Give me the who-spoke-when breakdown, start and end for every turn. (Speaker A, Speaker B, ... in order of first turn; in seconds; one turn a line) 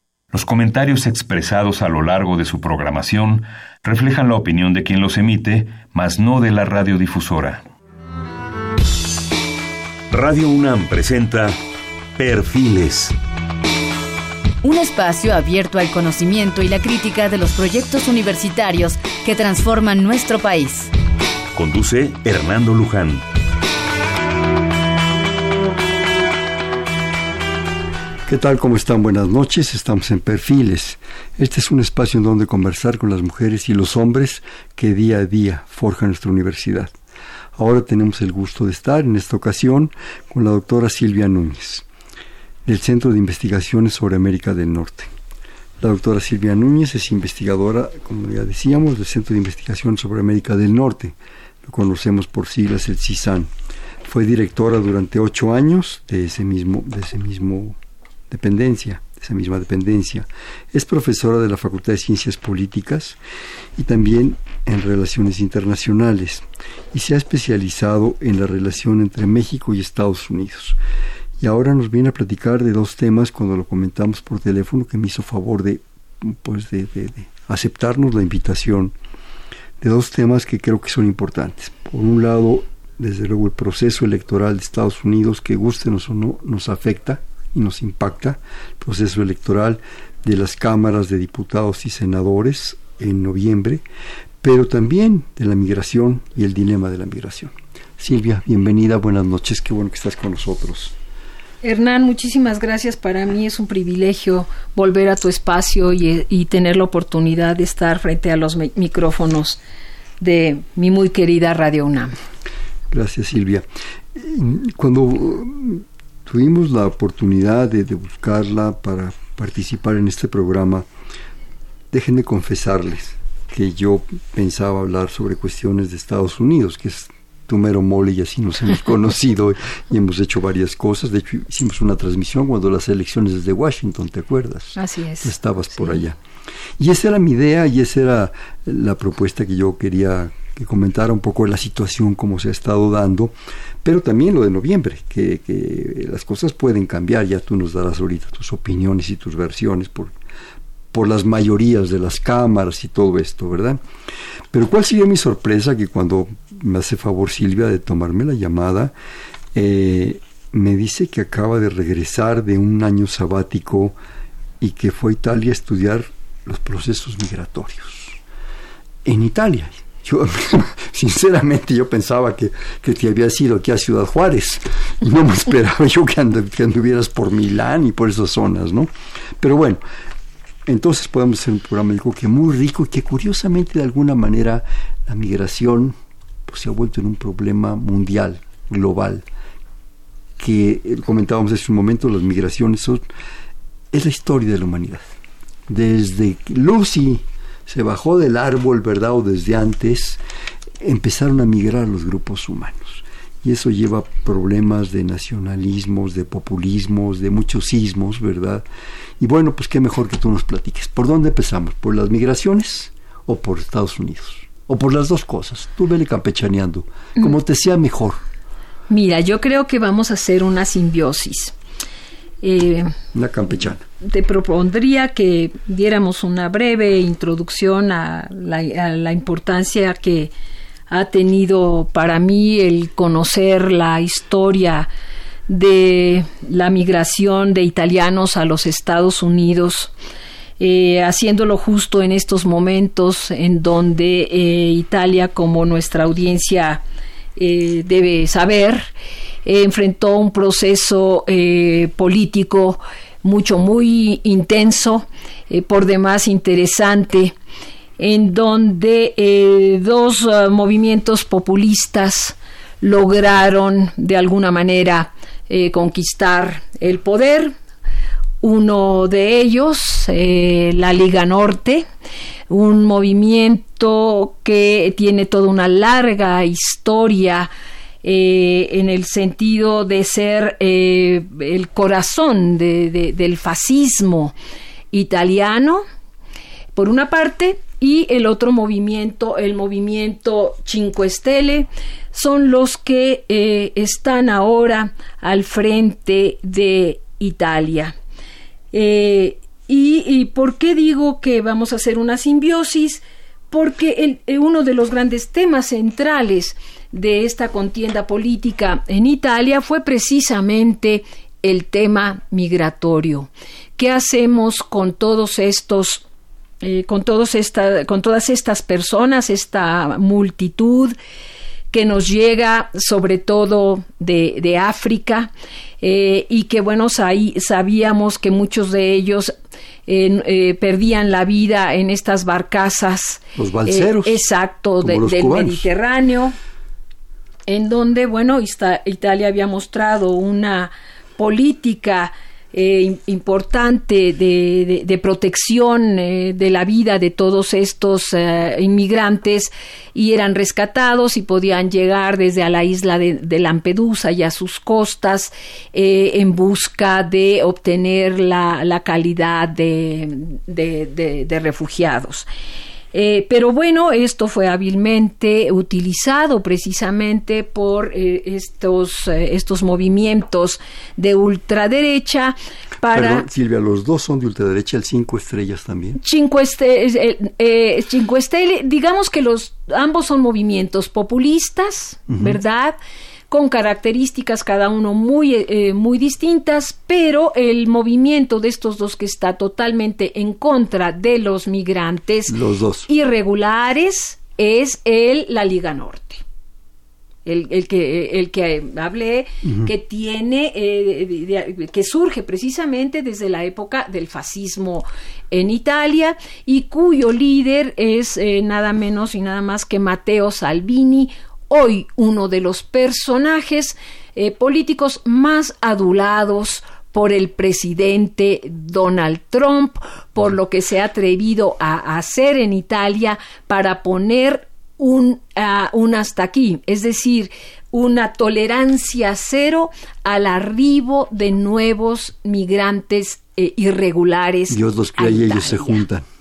Speaker A: 0.3-7.6
Speaker A: 10.1-11.6
Speaker A: 12.2-13.1
Speaker B: 14.6-20.9
Speaker A: 21.6-23.2
Speaker C: 28.3-36.9
Speaker C: 37.5-41.9
Speaker C: 42.6-45.1
Speaker C: 45.8-53.5
Speaker C: 54.0-57.8
Speaker C: 58.3-63.2
Speaker C: 63.8-70.8
Speaker C: 71.4-78.9
Speaker C: 79.8-93.8
Speaker C: 94.4-100.9
Speaker D: 101.6-109.6
Speaker D: 110.2-112.1
Speaker C: 112.9-120.8
Speaker C: 121.9-136.2
Speaker D: 134.8-136.0
Speaker C: 136.8-150.1
Speaker C: 150.9-153.8
Speaker C: 154.5-158.9
Speaker C: 159.5-163.9
Speaker C: 164.6-168.2
Speaker C: 169.0-179.8
Speaker C: 180.7-185.9
Speaker C: 186.5-189.2
Speaker C: 190.4-193.0
Speaker C: 193.9-195.1
Speaker C: 195.7-200.2
Speaker C: 200.8-208.6
Speaker C: 209.2-218.2
Speaker D: 218.9-221.5
Speaker D: 222.4-222.9
Speaker C: 223.1-223.8
Speaker D: 224.0-230.3
Speaker D: 230.9-234.9
Speaker D: 235.5-239.9
Speaker D: 240.6-246.8
Speaker D: 247.4-248.9
Speaker D: 249.4-257.3
Speaker D: 258.0-267.5
Speaker D: 268.4-271.9
Speaker D: 272.5-277.5
Speaker D: 278.0-284.3
Speaker D: 284.9-285.8
Speaker D: 286.7-297.9
Speaker D: 298.7-316.0
Speaker D: 316.6-320.9
Speaker D: 321.7-329.3
Speaker D: 329.9-336.3
Speaker C: 333.4-334.2
Speaker C: 334.8-335.7
Speaker D: 337.5-362.3
Speaker D: 362.9-373.2
Speaker C: 372.8-376.0
Speaker D: 376.0-382.8
Speaker C: 382.1-382.4
Speaker D: 383.3-392.4
Speaker C: 392.3-392.9
Speaker D: 392.9-396.2
Speaker D: 397.2-435.8
Speaker C: 434.5-436.1